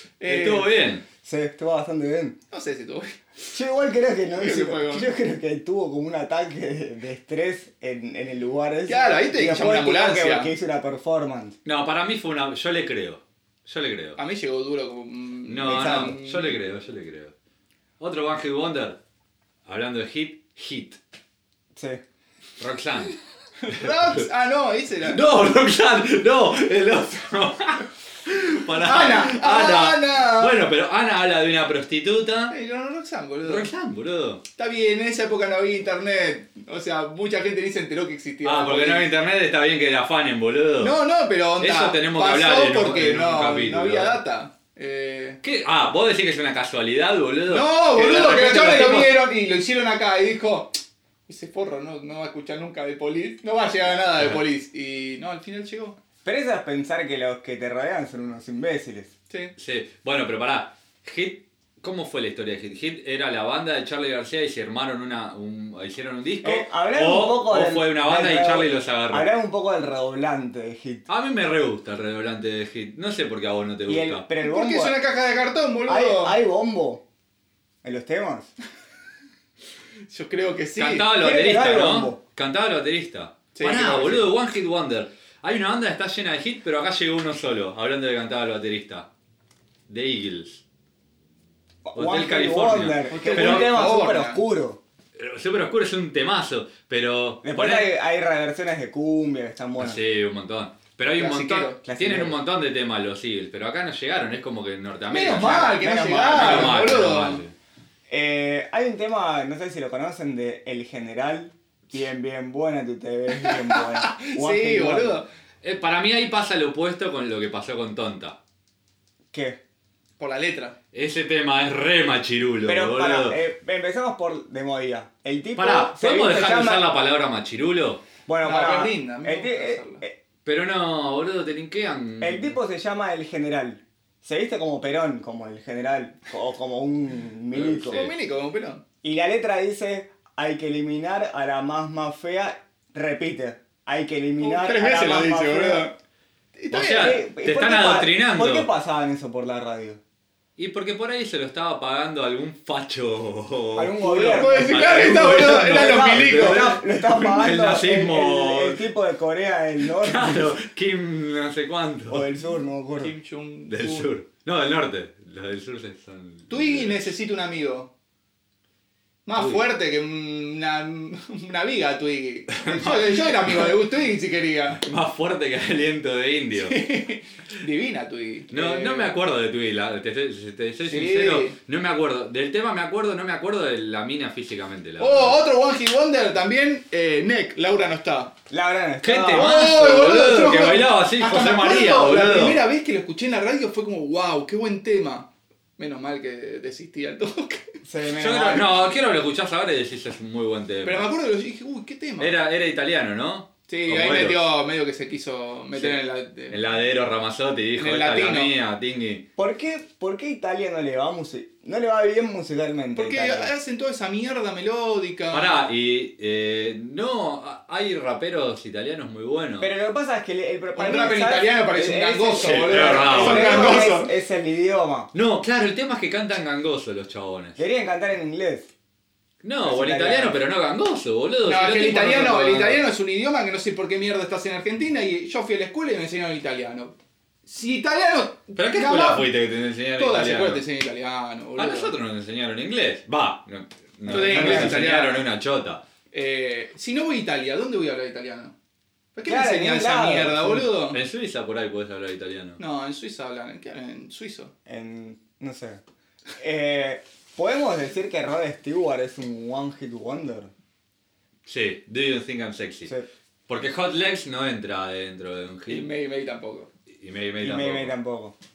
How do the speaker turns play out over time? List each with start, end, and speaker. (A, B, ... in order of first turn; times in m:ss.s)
0:00.2-0:00.7 A
0:00.3-0:01.0 B
0:01.2-0:02.4 C
0:02.5-0:03.2 A
0:03.4-0:11.6 C
0:04.4-0:05.1 A
0:08.9-0:10.5 A
0:11.6-0:14.2 B
0:14.2-0:16.5 A
0:15.5-0:17.3 B
0:15.7-0:16.2 C
0:18.0-0:19.0 B
0:19.6-0:21.0 B
0:21.7-0:22.0 C
0:22.6-0:23.2 B
0:23.6-0:25.2 A
0:25.0-0:32.5 B
0:28.8-0:30.6 A
0:32.5-0:33.7 A
0:33.4-0:34.4 B
0:34.6-0:39.1 A
0:38.4-0:41.0 B
0:40.8-0:45.4 A
0:41.6-0:44.2 B
0:45.4-0:49.2 B
0:47.5-0:56.0 A
0:56.2-0:59.1 C
0:59.6-1:09.3 B
1:06.4-1:11.0 C
1:11.1-1:14.2 B
1:13.9-1:15.0 C
1:14.4-1:16.4 A
1:15.9-1:17.0 C
1:17.8-1:18.5 C
1:20.1-1:21.1 A
1:20.8-1:29.1 B
1:21.2-1:22.2 C
1:23.5-1:24.3 A
1:29.9-1:30.6 B
1:31.8-1:34.8 C
1:31.9-1:33.8 B
1:33.1-1:34.4 A
1:35.2-1:37.9 B
1:37.4-1:40.0 C
1:39.8-1:47.5 B
1:41.2-1:41.8 A
1:41.8-1:42.4 C
1:45.1-1:47.4 A
1:45.8-1:46.8 C
1:48.1-1:55.2 C
1:53.4-1:55.3 A
1:55.6-1:58.4 B
1:59.3-1:59.6 C
2:00.2-2:00.8 A
2:00.9-2:03.4 B
2:02.6-2:06.8 C
2:05.6-2:08.0 B
2:08.2-2:10.2 C
2:08.4-2:10.0 A
2:10.4-2:12.5 B
2:12.2-2:18.1 C
2:17.5-2:18.1 B
2:17.6-2:18.8 A
2:19.0-2:25.9 C
2:24.4-2:25.9 A
2:26.6-2:27.1 A
2:26.7-2:28.7 B
2:26.8-2:30.0 C
2:30.6-2:38.8 B
2:33.8-2:40.6 C
2:34.0-2:36.8 A
2:39.8-2:42.3 B
2:42.1-2:43.1 C
2:43.0-2:44.1 A
2:43.7-2:47.1 B
2:46.5-2:47.9 A
2:49.2-2:54.8 A
2:49.4-2:49.6 B
2:52.6-2:53.7 B
2:54.8-2:56.8 B
2:56.5-2:59.1 A
2:58.5-3:05.4 B
3:00.8-3:01.6 A
3:05.0-3:08.3 A
3:08.5-3:09.6 C
3:09.0-3:12.6 B
3:09.3-3:17.7 A
3:17.8-3:18.7 C
3:18.1-3:21.1 B
3:20.8-3:22.3 A
3:22.2-3:24.5 B
3:23.7-3:26.6 A
3:26.5-3:29.2 B
3:27.8-3:28.5 A
3:29.4-3:33.5 C
3:32.9-3:35.6 A
3:35.3-3:39.7 B
3:39.6-3:45.1 C
3:40.7-3:44.1 A
3:42.4-3:43.8 B
3:45.1-3:47.6 B
3:47.6-3:48.7 C
3:49.4-3:52.8 B
3:49.6-3:50.4 C
3:51.4-3:56.9 A
3:57.4-3:59.3 A
3:58.6-4:00.6 B
4:00.0-4:01.9 A
4:01.6-4:05.8 B
4:04.1-4:05.2 A
4:04.1-4:04.8 C
4:06.1-4:08.5 A
4:09.1-4:11.0 A
4:09.2-4:10.7 C
4:10.9-4:12.6 B
4:12.6-4:14.5 A
4:14.6-4:15.8 C
4:16.4-4:20.5 C
4:21.4-4:22.9 B
4:23.5-4:25.9 B
4:25.7-4:26.7 A
4:27.0-4:27.9 B
4:27.4-4:28.3 C